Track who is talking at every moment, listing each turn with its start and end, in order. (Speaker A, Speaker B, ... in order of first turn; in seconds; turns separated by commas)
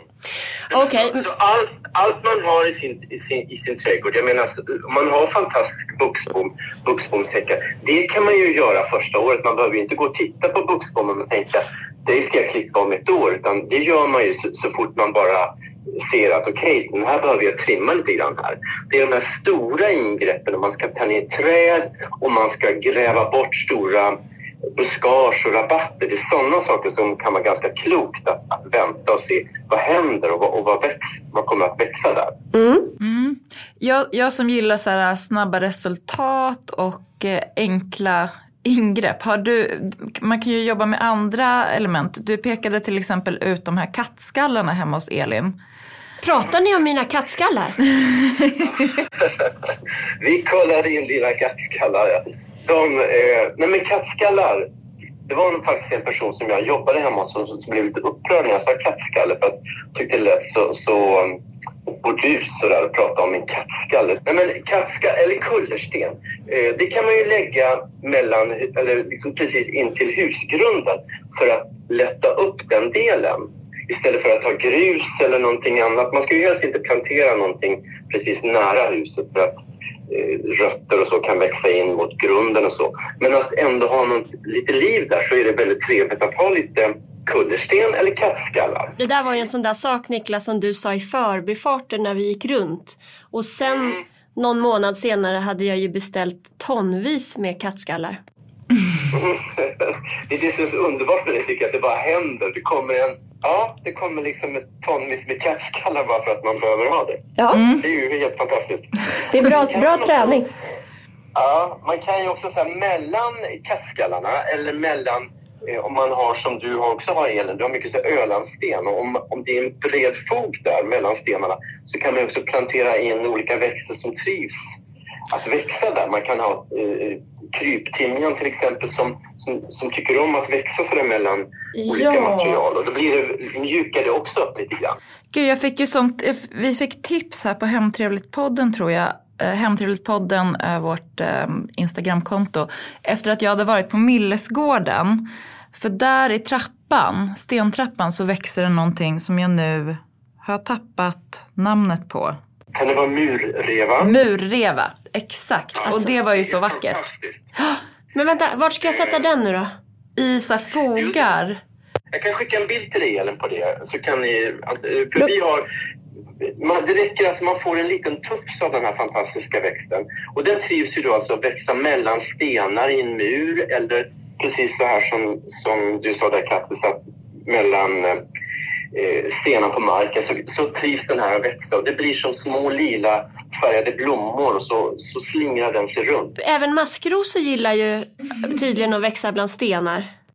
Speaker A: 0.7-1.2, Speaker B: 0.7-24.1, Speaker B: 24.8-32.4, Speaker A: 32.5-32.9, Speaker C: 33.0-45.5, Speaker A: 46.2-47.8, Speaker B: 49.2-49.5, Speaker B: 50.2-54.7, Speaker B: 55.3-61.4, Speaker B: 61.9-79.6, Speaker B: 80.1-88.9, Speaker A: 89.0-98.2, Speaker B: 99.1-110.4, Speaker A: 107.4-107.6, Speaker C: 107.5-107.8, Speaker A: 109.3-110.5, Speaker B: 111.3-124.8, Speaker B: 125.3-135.0, Speaker C: 131.8-132.6, Speaker C: 135.3-152.4, Speaker B: 152.7-154.1, Speaker C: 154.0-157.0, Speaker B: 155.8-157.5, Speaker A: 158.1-159.7, Speaker C: 160.2-161.6, Speaker B: 161.0-161.3, Speaker B: 162.1-165.6, Speaker B: 166.4-178.2, Speaker B: 178.9-186.4, Speaker A: 186.4-190.1